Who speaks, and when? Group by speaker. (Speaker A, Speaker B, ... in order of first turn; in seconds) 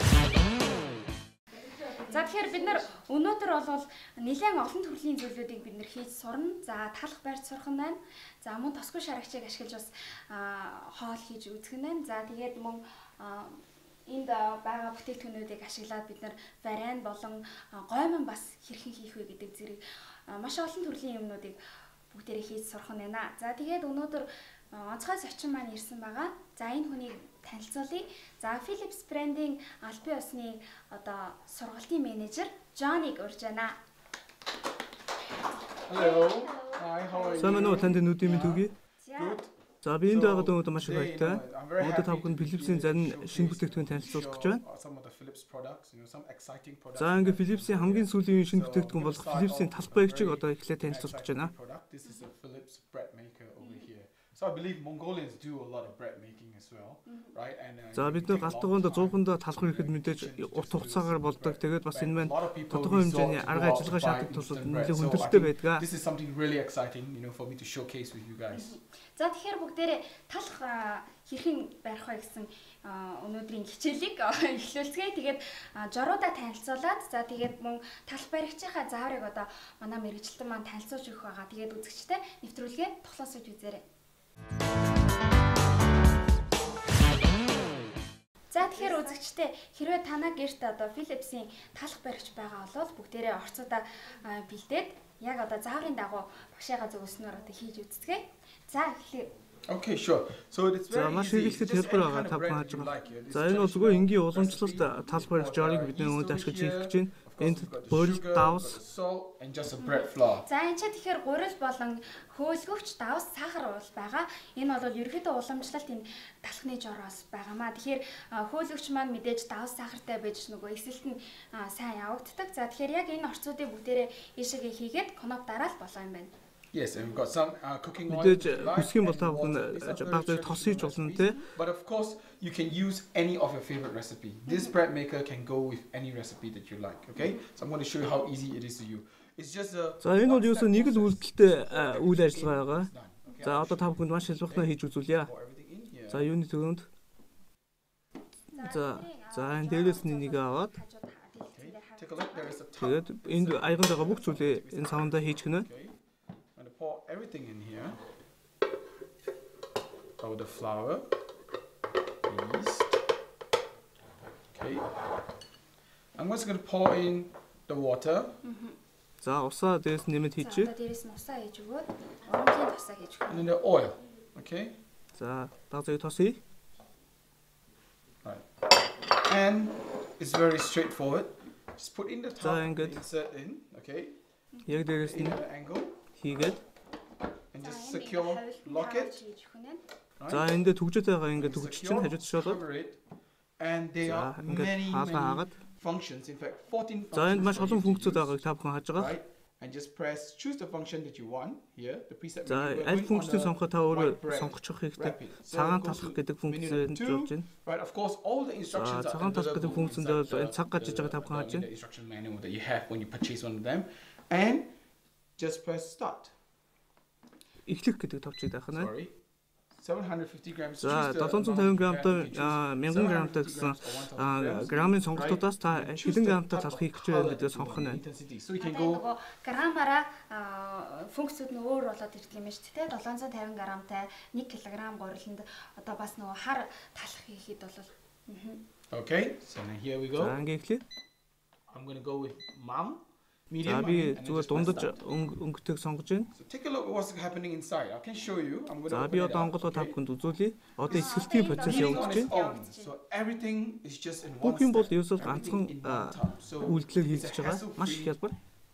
Speaker A: 2.0-21.6, 22.1-33.8, 36.0-38.0, 39.0-39.4, 53.6-53.9, 57.1-57.3, 68.5-83.8, 88.5-99.3, 109.8-126.3, 134.5-134.7, 148.5-152.6, 168.4-168.8, 170.4-173.5, 187.6-189.8, 228.6-238.6, 250.9-253.0
Speaker B: 35.9-68.8, 99.7-110.5, 126.7-146.3, 151.5-156.0, 156.6-158.0, 160.2-161.1, 162.2-163.0, 164.5-164.9, 166.2-168.4, 173.3-174.8, 179.1-184.2, 184.9-186.0, 187.5-189.2, 190.2-190.5, 191.4-193.0, 193.6-198.4, 198.9-214.7, 215.4-216.3, 218.7-219.2, 219.8-229.0, 238.9-240.4, 241.7-245.0, 246.3-250.0, 250.9-258.1
Speaker C: 37.4-38.7, 39.8-44.6, 47.0-51.5, 58.0-65.9, 100.9-108.8, 128.1-131.4, 140.0-142.9, 143.4-145.3, 146.1-146.9, 148.6-150.8, 152.8-155.7, 169.2-170.7, 175.2-176.4, 182.4-183.0, 184.7-185.4, 186.2-186.6, 190.3-192.6, 194.0-195.6, 197.1-199.2, 202.4-207.5, 208.7-211.7, 217.7-218.9, 220.8-228.0, 240.2-240.8, 243.7-246.3, 248.9-252.3, 254.4-258.4